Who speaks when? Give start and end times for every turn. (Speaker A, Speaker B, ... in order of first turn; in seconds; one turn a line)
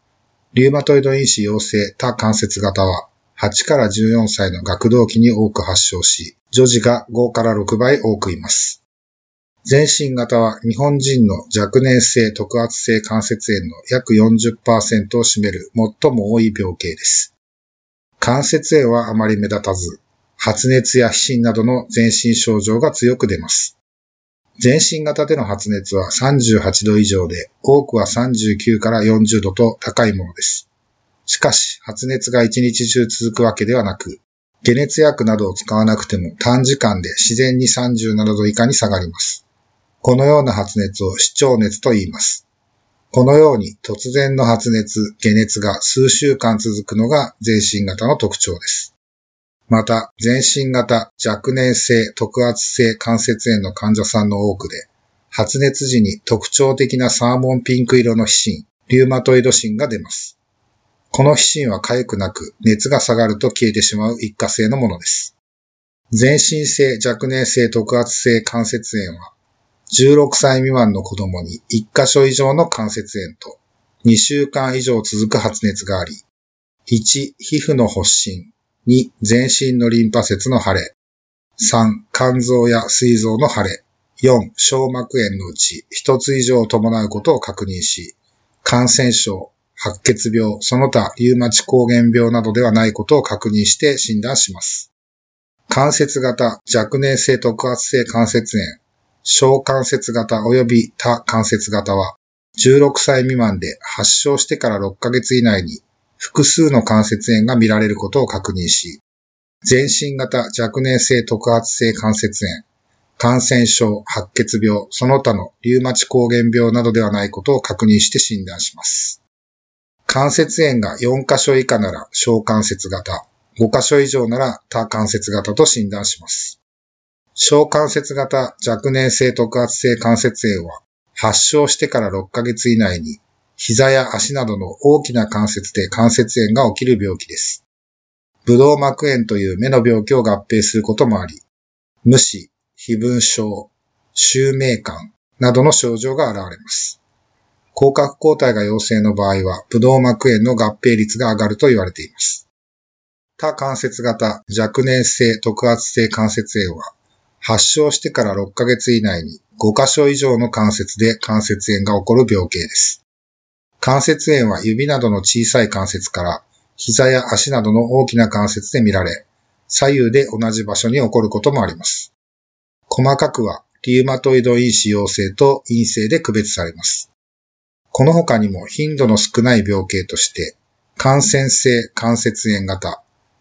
Speaker A: 0.5-8.8
Speaker A: 9.7-17.3
Speaker A: 18.2-23.8
Speaker A: 24.6-30.7
Speaker A: 31.3-39.4
Speaker A: 40.0-42.5
Speaker A: 43.1-48.9
Speaker A: 49.7-60.4
Speaker A: 61.1-65.3
Speaker A: 66.1-69.3
Speaker A: 69.9-76.3
Speaker A: 76.9-81.0
Speaker A: 81.6-94.9
Speaker A: 95.7-109.0
Speaker A: 109.7-112.7
Speaker A: 113.2-119.2
Speaker A: 120.1-126.6
Speaker A: 127.4-137.6
Speaker A: 138.4-141.5
Speaker A: 142.0-147.0
Speaker A: 147.7-152.5
Speaker A: 153.4-163.0
Speaker A: 163.8-172.1
Speaker A: 172.9-177.1
Speaker A: 177.9-183.0